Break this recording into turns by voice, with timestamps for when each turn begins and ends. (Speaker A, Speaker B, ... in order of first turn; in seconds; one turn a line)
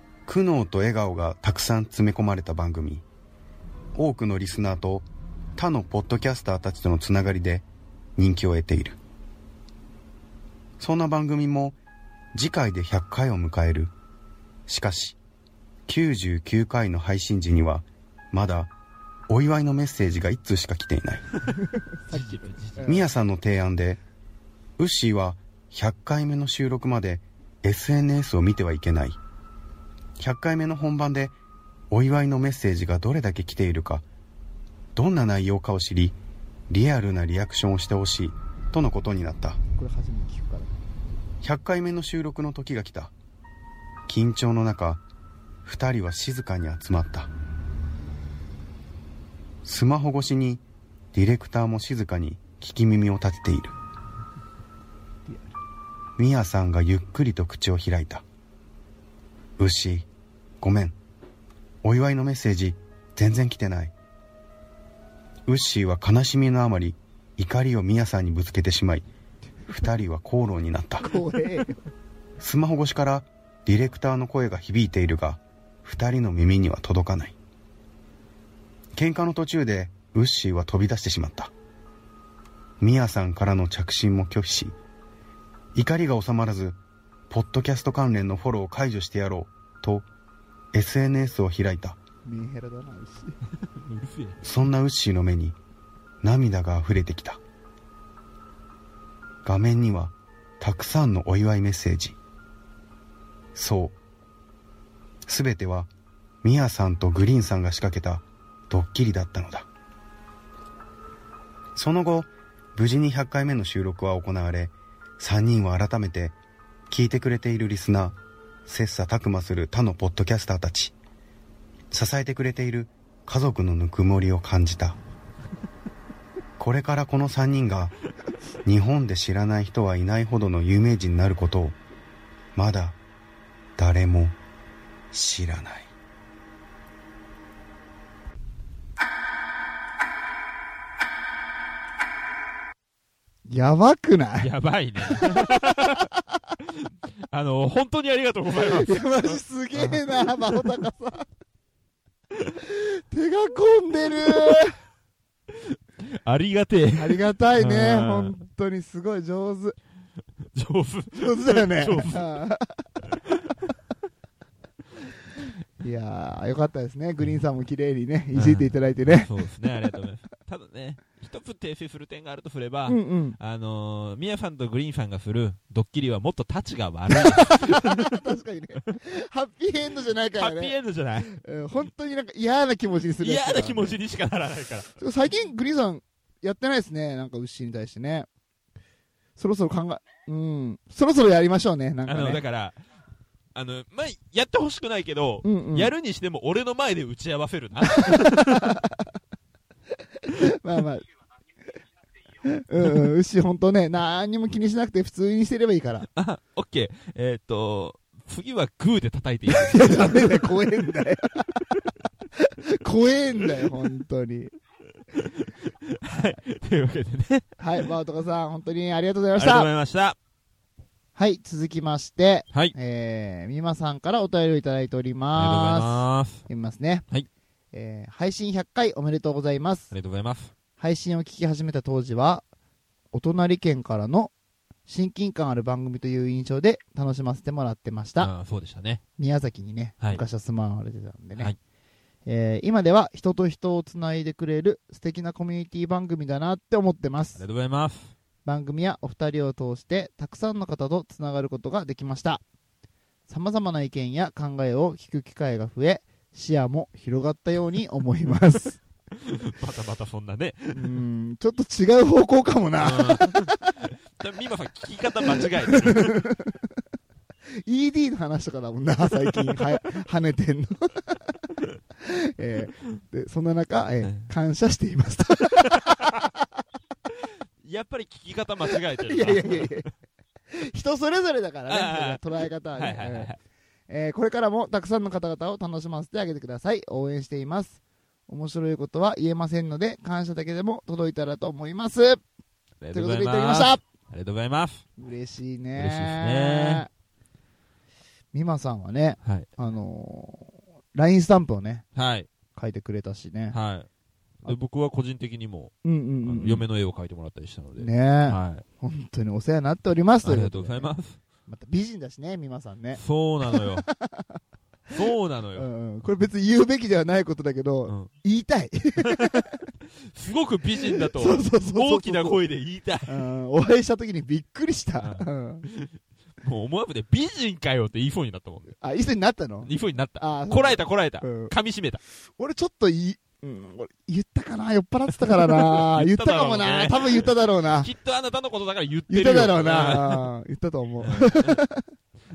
Speaker A: 0.3-3.0
Speaker A: 4.0-5.1
Speaker A: 5.6-7.7
Speaker A: 8.2-9.0
Speaker A: 10.8-11.8
Speaker A: 12.3-13.9
Speaker A: 14.7-15.2
Speaker A: 15.9-18.7
Speaker A: 19.3-21.2
Speaker B: 22.0-23.1
Speaker C: 22.1-22.9
Speaker A: 22.9-24.0
Speaker A: 24.8-29.2
Speaker A: 30.2-31.4
Speaker A: 31.9-34.0
Speaker A: 35.0-36.2
Speaker A: 36.7-39.6
Speaker B: 39.8-40.7
Speaker A: 41.4-43.1
Speaker A: 44.1-45.0
Speaker A: 45.6-47.3
Speaker A: 49.6-50.6
Speaker A: 51.1-53.7
Speaker A: 56.2-58.2
Speaker A: 59.6-60.1
Speaker A: 60.6-61.0
Speaker A: 61.8-63.9
Speaker A: 65.5-69.1
Speaker A: 69.7-71.1
Speaker B: 71.0-71.8
Speaker A: 72.4-77.4
Speaker A: 79.0-81.5
Speaker A: 82.8-84.8
Speaker A: 85.8-86.8
Speaker A: 87.3-90.1
Speaker A: 90.7-92.0
Speaker B: 92.2-93.3
Speaker C: 93.8-94.4
Speaker A: 94.4-95.6
Speaker A: 96.2-97.4
Speaker A: 99.4-102.2
Speaker A: 103.5-104.0
Speaker A: 105.3-105.9
Speaker A: 106.4-109.7
Speaker A: 111.8-116.4
Speaker A: 116.9-121.0
Speaker A: 121.9-125.0
Speaker A: 126.6-128.0
Speaker A: 128.7-131.8
Speaker A: 132.6-133.0
Speaker A: 133.8-134.3
Speaker A: 135.1-135.9
Speaker B: 143.5-144.5
Speaker C: 144.4-146.1
Speaker B: 145.1-146.0
Speaker C: 147.3-150.7
Speaker B: 148.8-151.3
Speaker B: 152.6-154.8
Speaker C: 156.0-158.3
Speaker B: 157.0-159.8
Speaker C: 160.5-162.3
Speaker B: 161.2-162.9
Speaker B: 165.8-169.3
Speaker C: 168.3-178.1
Speaker B: 172.9-173.4
Speaker B: 177.1-180.7
Speaker C: 180.4-181.3
Speaker B: 181.3-184.0
Speaker C: 183.2-184.9
Speaker B: 185.0-188.3
Speaker B: 189.4-192.4
Speaker C: 192.1-192.8
Speaker C: 193.6-198.7
Speaker B: 195.4-195.9
Speaker B: 197.9-199.0
Speaker B: 200.2-201.1
Speaker B: 202.4-206.1
Speaker C: 206.2-210.5
Speaker B: 209.5-211.5
Speaker B: 212.4-214.5
Speaker C: 215.1-217.5
Speaker B: 217.6-219.7
Speaker C: 219.4-220.2
Speaker B: 221.2-227.1
Speaker C: 225.3-226.4
Speaker B: 227.7-229.9
Speaker C: 229.9-230.5
Speaker B: 230.8-232.4
Speaker B: 233.1-234.3
Speaker B: 234.9-238.3
Speaker C: 238.2-239.0
Speaker B: 239.2-241.5
Speaker B: 242.3-247.4
Speaker C: 247.4-248.1
Speaker B: 248.4-252.4
Speaker B: 253.3-258.8
Speaker C: 259.2-260.9
Speaker B: 260.7-263.6
Speaker C: 262.8-263.6
Speaker C: 264.2-266.2
Speaker B: 265.7-266.5
Speaker B: 267.6-271.2
Speaker B: 272.0-276.3
Speaker C: 274.0-274.3
Speaker C: 277.6-279.9
Speaker B: 279.1-279.9
Speaker B: 280.5-283.3
Speaker C: 281.7-283.4
Speaker B: 283.9-292.2
Speaker C: 292.8-294.9
Speaker B: 292.9-293.8
Speaker B: 295.0-296.9
Speaker C: 295.8-296.9
Speaker B: 298.3-301.9
Speaker C: 301.9-302.3
Speaker B: 302.6-303.6
Speaker C: 303.5-303.9
Speaker C: 304.4-308.6
Speaker B: 305.8-306.6
Speaker B: 307.8-310.9
Speaker C: 310.2-311.2
Speaker B: 311.5-314.4
Speaker C: 312.9-313.9
Speaker C: 314.9-315.7
Speaker B: 315.6-319.5
Speaker C: 319.1-319.3
Speaker C: 320.1-323.1
Speaker B: 320.8-322.4
Speaker B: 323.1-325.7
Speaker C: 325.0-325.9
Speaker C: 326.4-328.8
Speaker B: 328.8-331.5
Speaker C: 329.6-332.0
Speaker B: 332.4-337.9
Speaker C: 335.2-340.3
Speaker B: 339.1-341.9
Speaker C: 341.0-341.6